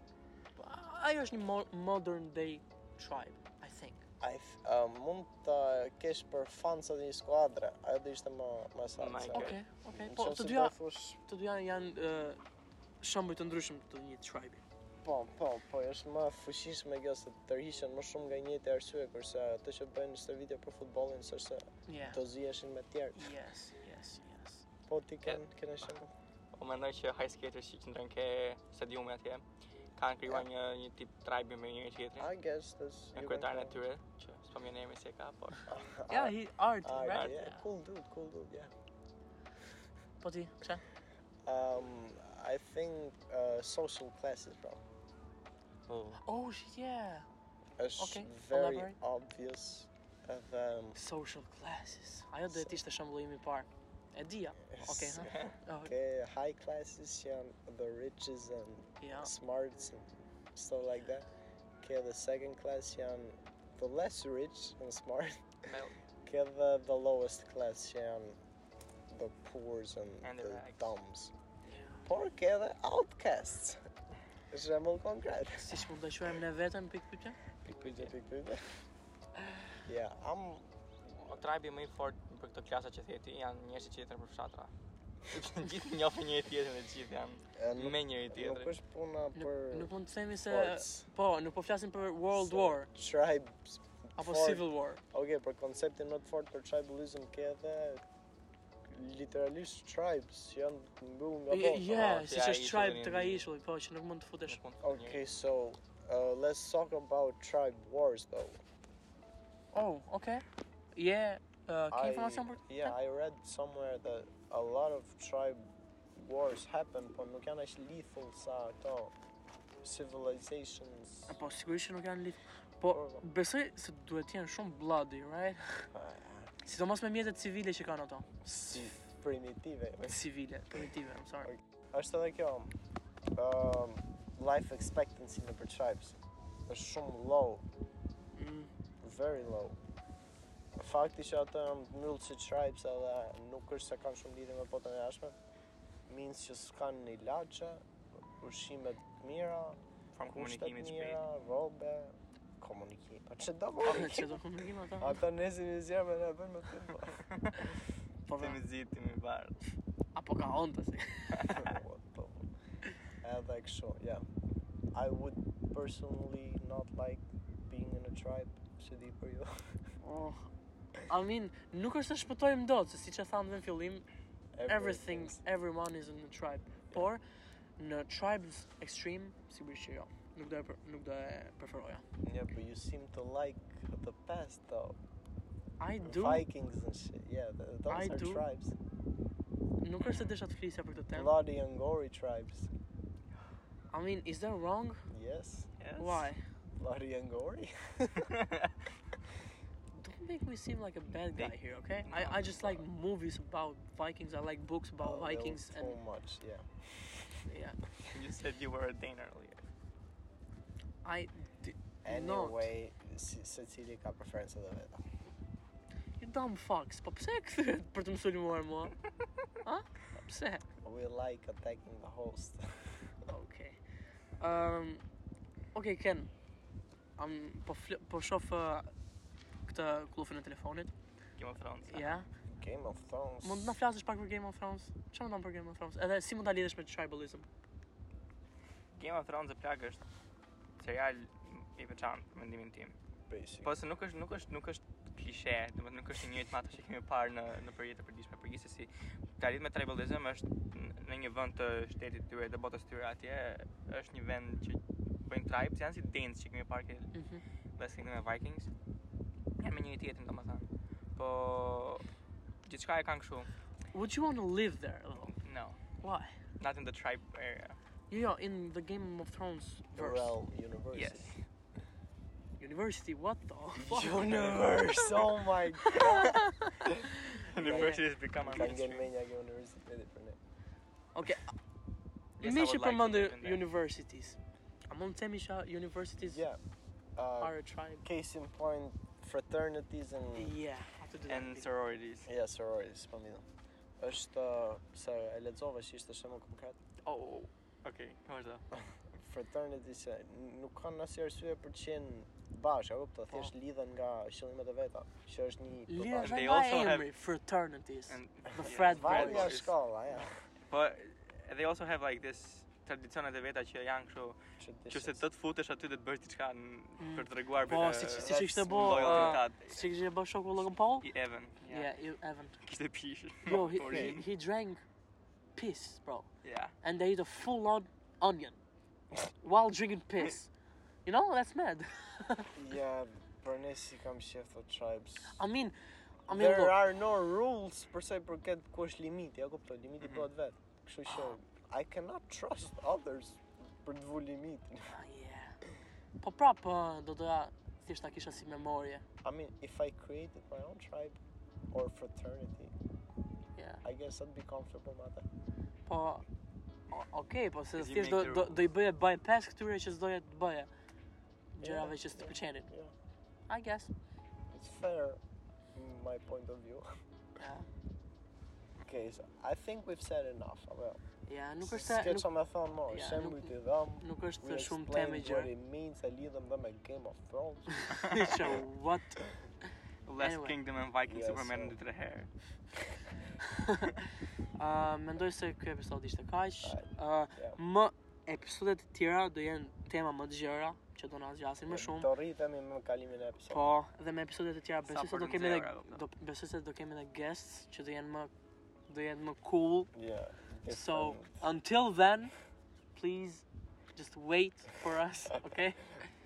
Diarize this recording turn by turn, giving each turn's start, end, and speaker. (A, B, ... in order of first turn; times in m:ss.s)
0:00.6-0:04.0 A
0:04.2-0:11.2 B
0:09.0-0:09.6 C
0:09.3-0:12.4 A
0:13.0-0:14.6 A
0:15.0-0:23.3 B
0:21.9-0:22.2 A
0:23.2-0:24.6 A
0:24.9-0:26.1 B
0:26.5-0:29.4 C
0:30.0-0:32.3 C
0:32.2-0:33.8 B
0:33.1-0:35.6 C
0:35.7-0:38.7 B
0:36.1-0:37.6 A
0:37.1-0:37.3 C
0:40.2-0:40.8 A
0:41.4-0:44.8 B
0:45.9-0:46.2 C
0:46.2-0:47.2 A
0:47.8-0:51.0 B
0:48.0-0:49.0 A
0:51.0-0:55.9 A
0:52.5-0:52.8 B
0:54.7-1:01.3 B
0:55.2-0:55.6 C
0:59.0-0:59.3 A
1:01.8-1:05.5 B
1:05.6-1:06.0 C
1:06.2-1:08.4 B
1:09.1-1:11.3 B
1:10.2-1:11.0 C
1:11.7-1:12.0 A
1:12.0-1:13.8 B
1:14.5-1:15.9 B
1:15.6-1:17.4 A
1:17.6-1:18.7 B
1:17.8-1:18.1 C
1:19.8-1:21.4 B
1:21.2-1:24.7 C
1:25.2-1:28.8 C
1:27.6-1:29.9 B
1:29.3-1:32.9 A
1:30.5-1:31.1 B
1:32.3-1:38.0 B
1:34.2-1:35.0 A
1:38.9-1:42.3 B
1:41.5-1:44.6 A
1:42.0-1:43.4 C
1:44.5-1:45.2 C
1:44.8-1:48.6 B
1:49.7-1:53.0 A
1:51.9-1:59.1 B
1:59.8-2:01.4 B
2:01.3-2:05.9 A
2:02.9-2:03.2 B
2:05.9-2:06.5 B
2:06.6-2:08.8 A
2:08.5-2:10.2 B
2:10.0-2:11.5 A
2:11.4-2:12.7 B
2:13.3-2:17.6 B
2:18.4-2:18.7 A
2:19.0-2:19.8 B
2:20.8-2:25.4 B
2:26.1-2:27.8 B
2:28.4-2:34.4 B
2:30.1-2:31.2 C
2:33.8-2:35.2 A
2:35.0-2:37.8 B
2:37.3-2:37.6 C
2:38.3-2:38.6 A
2:38.4-2:39.7 C
2:40.1-2:41.6 A
2:41.3-2:41.7 C
2:41.5-2:42.5 B
2:43.2-2:44.2 B
2:44.9-2:49.7 B
2:50.0-2:50.5 A
2:51.1-2:54.0 A
2:54.5-2:55.4 B
2:54.7-2:57.2 A
2:57.8-3:02.0 A
3:02.2-3:05.0 B
3:05.8-3:06.4 A
3:06.0-3:08.7 B
3:07.9-3:08.4 A
3:09.8-3:11.3 A
3:10.0-3:10.3 C
3:11.1-3:12.7 B
3:13.9-3:15.0 A
3:15.1-3:15.7 B
3:15.8-3:16.3 C
3:16.0-3:16.4 A
3:16.8-3:18.3 B
3:18.2-3:18.8 C
3:19.9-3:26.0 A
3:21.3-3:22.8 C
3:25.0-3:27.4 B
3:27.4-3:27.8 A
3:28.1-3:29.6 C
3:31.0-3:32.7 A
3:32.0-3:35.0 B
3:36.2-3:39.0 A
3:39.6-3:40.6 A
3:40.8-3:43.1 B
3:43.3-3:43.8 A
3:44.4-3:45.0 A
3:45.7-3:46.3 A
3:47.2-3:48.9 A
3:49.7-3:50.9 A
3:51.4-3:52.1 C
3:51.9-3:52.3 A
3:52.5-3:53.8 B
3:53.4-3:57.4 A
3:58.9-4:00.0 C
4:00.8-4:02.9 C
4:03.3-4:03.7 B
4:03.6-4:17.1 C
4:17.1-4:17.4 A
4:17.8-4:18.7 C
4:19.6-4:22.1 C
4:22.6-4:23.5 C
4:23.9-4:25.4 A
4:25.4-4:25.8 C
4:26.0-4:26.4 A
4:26.6-4:27.8 C
4:28.1-4:30.4 A
4:29.9-4:31.3 B
4:30.9-4:31.3 C
4:32.6-4:35.2 A
4:33.8-4:36.3 B
4:34.2-4:34.7 C
4:35.8-4:38.0 A
4:37.3-4:39.1 C
4:37.5-4:40.4 B
4:41.1-4:41.5 A
4:42.4-4:43.6 C
4:42.4-4:44.4 A
4:44.9-4:46.4 A
4:46.2-4:46.6 B
4:47.2-4:50.6 B
4:47.4-4:48.0 A
4:50.4-4:51.7 A
4:51.2-4:52.3 C
4:52.2-4:53.4 B
4:54.0-4:56.8 B
4:57.0-4:58.6 C
4:58.8-5:06.4 B
5:05.9-5:09.6 A
5:06.1-5:07.1 C
5:08.1-5:09.7 C
5:08.7-5:10.4 B
5:10.7-5:14.4 C
5:14.6-5:15.2 B
5:14.9-5:19.9 C
5:17.0-5:21.1 A
5:18.2-5:19.4 B
5:20.9-5:21.9 C
5:21.7-5:22.6 A
5:22.6-5:24.2 C
5:23.4-5:24.8 A
5:23.5-5:24.2 B
5:25.6-5:26.3 A
5:26.4-5:26.7 C
5:26.8-5:28.6 A
5:29.4-5:30.5 A
5:31.0-5:32.5 A
5:32.5-5:35.4 B
5:35.3-5:35.8 A
5:36.3-5:36.8 A
5:36.3-5:44.9 B
5:40.0-5:40.3 C
5:44.9-5:45.6 A
5:46.2-5:49.0 A
5:49.2-5:51.2 B
5:51.7-5:52.7 B
5:53.5-5:53.8 A
5:53.8-5:55.2 B
5:55.8-5:56.2 A
5:56.9-6:00.7 A
5:57.7-5:58.7 C
6:01.6-6:02.7 A
6:01.6-6:02.9 B
6:03.5-6:03.9 A
6:04.5-6:05.2 B
6:05.7-6:06.9 B
6:07.4-6:07.7 A
6:08.8-6:11.0 B
6:11.3-6:12.3 A
6:11.6-6:17.9 B
6:12.9-6:15.5 A
6:17.8-6:19.2 A
6:20.0-6:22.3 C
6:20.2-6:20.6 A
6:21.0-6:21.8 B
6:23.4-6:32.1 A
6:26.6-6:27.6 B
6:31.7-6:33.6 B
6:33.5-6:38.3 A
6:34.9-6:36.0 C
6:38.9-6:39.9 A
6:39.9-6:41.4 B
6:40.7-6:42.3 A
6:42.9-6:43.4 A
6:43.9-6:46.1 A